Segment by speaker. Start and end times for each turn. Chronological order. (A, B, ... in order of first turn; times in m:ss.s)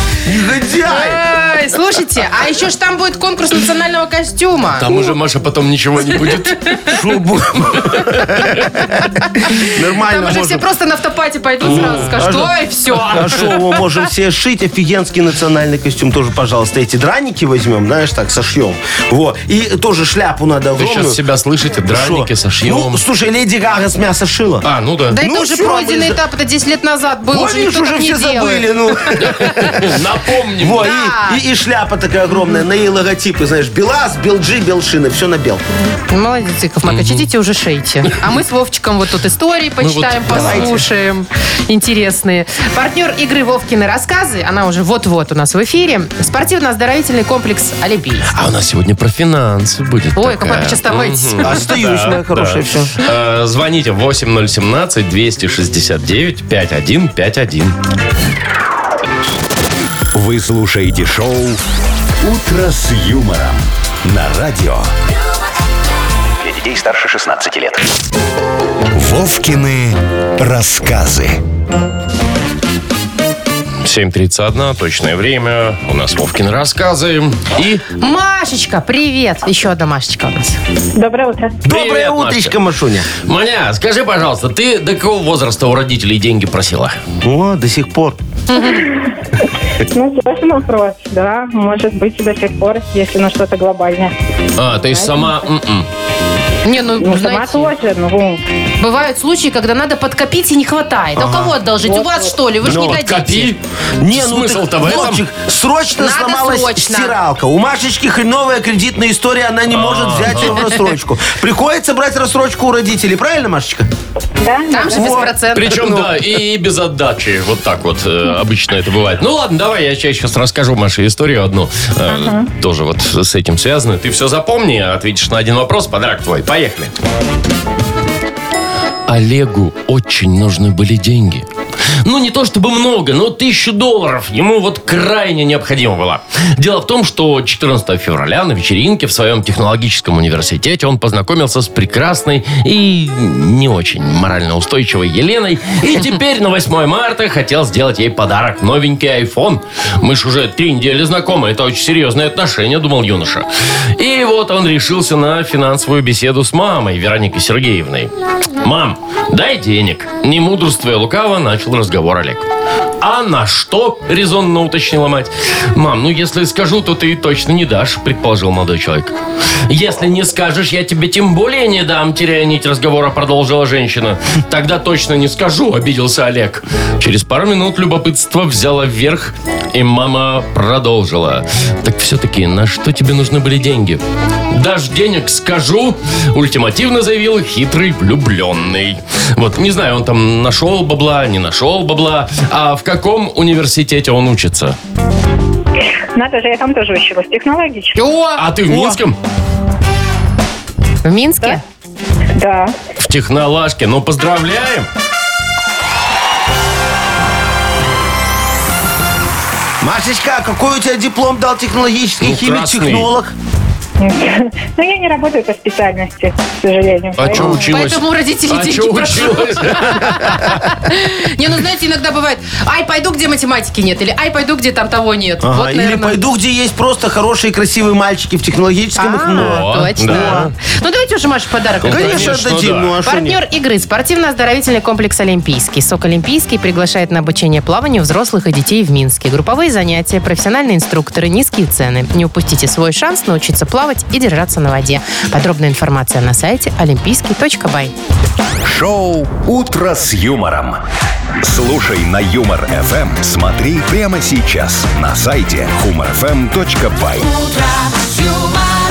0:00.2-0:01.2 A
0:00.9-0:05.1 B
0:04.8-0:06.7 C
0:06.2-0:07.0 B
0:06.9-0:10.6 A
0:09.2-0:13.5 B
0:11.6-0:12.3 C
0:11.6-0:12.5 A
0:12.9-0:13.7 C
0:13.1-0:21.2 A
0:20.8-0:23.0 C
0:21.9-0:26.2 A
0:24.6-0:25.2 C
0:25.1-0:29.8 B
0:27.3-0:30.0 A
0:29.2-0:30.9 C
0:30.6-0:35.6 A
0:30.8-0:31.4 B
0:36.1-0:48.3 B
0:36.9-0:37.3 C
0:39.8-0:40.8 C
0:40.3-0:40.8 A
0:48.3-0:57.8 C
0:50.2-0:51.7 B
0:51.4-0:52.9 A
1:00.1-1:01.6 D
1:02.2-1:04.9 D
1:06.4-1:07.8 D
1:08.9-1:11.4 D
1:13.8-1:17.8 C
1:18.0-1:20.6 B
1:21.0-1:21.6 E
1:21.6-1:23.1 A
1:21.7-1:22.6 C
1:23.2-1:27.0 C
1:27.2-1:28.2 A
1:28.5-1:28.9 B
1:28.8-1:29.2 E
1:29.9-1:34.1 E
1:34.6-1:35.9 C
1:34.9-1:35.4 E
1:36.6-1:37.7 B
1:37.0-1:38.4 E
1:38.8-1:43.5 B
1:41.2-1:41.6 A
1:41.8-1:42.3 E
1:42.6-1:43.0 A
1:42.6-1:45.2 C
1:44.0-1:53.9 A
1:46.0-1:47.2 B
1:49.7-1:50.7 C
1:54.4-1:55.3 E
1:54.7-1:55.8 B
1:54.9-1:56.2 A
1:55.5-2:06.9 C
2:02.1-2:02.5 E
2:09.1-2:11.5 C
2:12.0-2:33.5 C
2:34.0-2:42.5 C
2:43.0-2:49.1 C
2:49.7-3:14.8 C
3:16.2-3:18.0 E
3:18.0-3:19.0 B
3:18.4-3:19.2 C
3:21.0-3:21.6 B
3:22.4-3:22.7 E
3:23.0-3:24.9 C
3:29.8-3:33.3 A
3:32.2-3:33.1 C
3:34.0-3:37.6 E
3:37.2-3:40.6 C
3:37.4-3:46.2 B
3:45.4-3:50.5 A
3:49.0-3:52.5 B
3:49.3-3:50.5 C
3:51.8-3:53.0 C
3:51.9-3:53.4 A
3:53.0-4:07.9 B
4:08.6-4:10.8 D
4:11.4-4:17.7 D